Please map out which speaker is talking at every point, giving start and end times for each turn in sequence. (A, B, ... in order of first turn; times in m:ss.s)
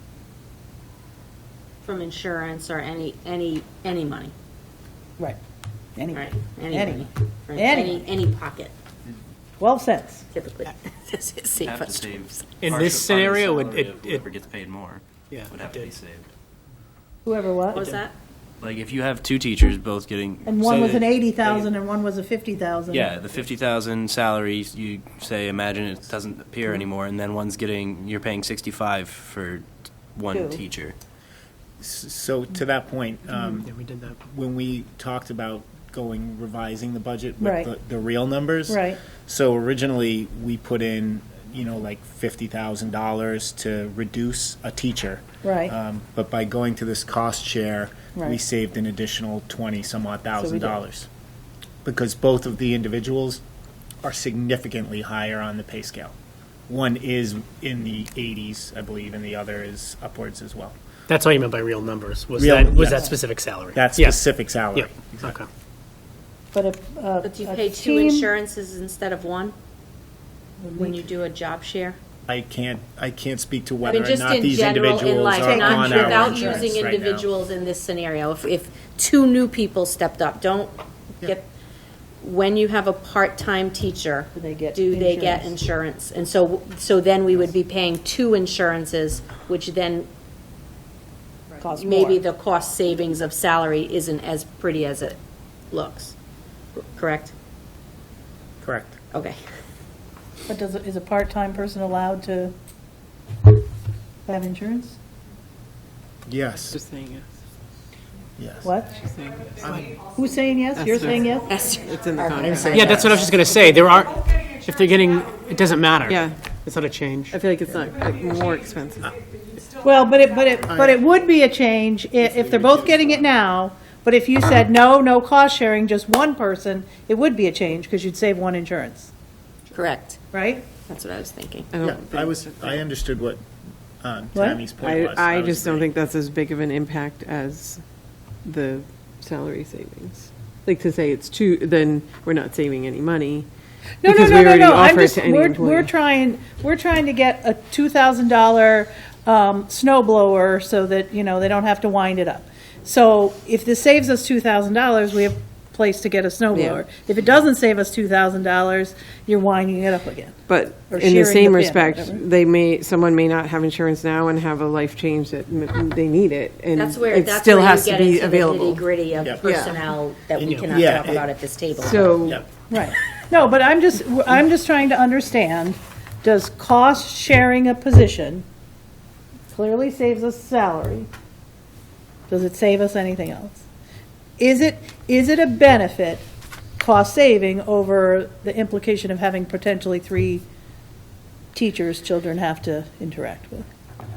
0:01.8-0:04.3 A
0:06.0-0:08.1 B
0:06.1-0:08.7 A
0:09.6-0:10.2 B
0:10.3-0:12.4 A
0:11.6-0:16.3 C
0:12.6-0:14.3 D
0:15.3-0:15.9 D
0:17.2-0:17.8 B
0:17.7-0:18.1 A
0:18.6-0:21.7 C
0:20.4-0:23.1 B
0:22.9-0:31.0 C
0:30.3-0:30.6 B
0:31.8-0:51.1 E
0:33.6-0:34.2 D
0:37.4-0:37.7 B
0:38.7-0:39.0 B
0:45.4-0:45.7 B
0:50.4-0:50.8 B
0:51.8-0:53.4 E
0:54.0-0:56.1 E
0:56.7-1:00.8 E
1:01.1-1:04.2 D
1:02.4-1:03.1 E
1:02.9-1:03.1 B
1:03.7-1:05.4 E
1:04.7-1:05.4 D
1:06.5-1:08.3 B
1:07.2-1:09.5 A
1:10.6-1:11.0 B
1:10.7-1:12.0 A
1:12.3-1:17.3 E
1:13.8-1:21.5 A
1:15.4-1:16.7 B
1:22.2-1:30.1 A
1:24.3-1:25.5 B
1:31.6-1:32.2 B
1:31.7-1:35.2 A
1:35.7-1:36.1 A
1:36.8-1:37.3 A
1:38.6-1:39.0 E
1:40.5-1:42.5 B
1:44.2-1:45.0 B
1:46.3-1:46.8 E
1:46.7-1:47.3 F
1:48.4-1:48.7 E
1:48.6-1:48.9 B
1:48.9-1:49.6 F
1:49.6-1:49.9 E
1:50.0-1:51.5 B
1:50.8-1:53.1 F
1:51.4-1:53.0 A
1:52.4-1:53.2 E
1:52.7-1:57.4 D
1:56.1-1:56.4 F
1:57.3-1:59.1 F
1:59.8-2:09.1 B
2:00.7-2:01.0 E
2:02.2-2:03.3 E
2:09.7-2:10.2 A
2:10.3-2:10.7 B
2:10.8-2:11.7 A
2:11.7-2:12.8 F
2:11.8-2:13.4 E
2:14.0-2:15.9 E
2:14.3-2:14.6 B
2:14.8-2:17.8 F
2:18.4-2:23.5 F
2:24.0-2:40.3 B
2:24.0-2:25.9 F
2:36.5-2:36.8 F
2:40.5-2:48.9 F
2:40.9-2:42.2 B
2:46.7-2:52.3 A
2:49.4-2:49.8 F
2:50.4-2:50.8 D
2:50.7-2:51.3 E
2:51.8-2:52.4 F
2:52.7-2:58.4 B
2:59.5-3:01.1 B
3:02.3-3:03.6 B
3:04.4-3:06.2 B
3:06.8-3:10.4 B
3:11.5-3:13.7 B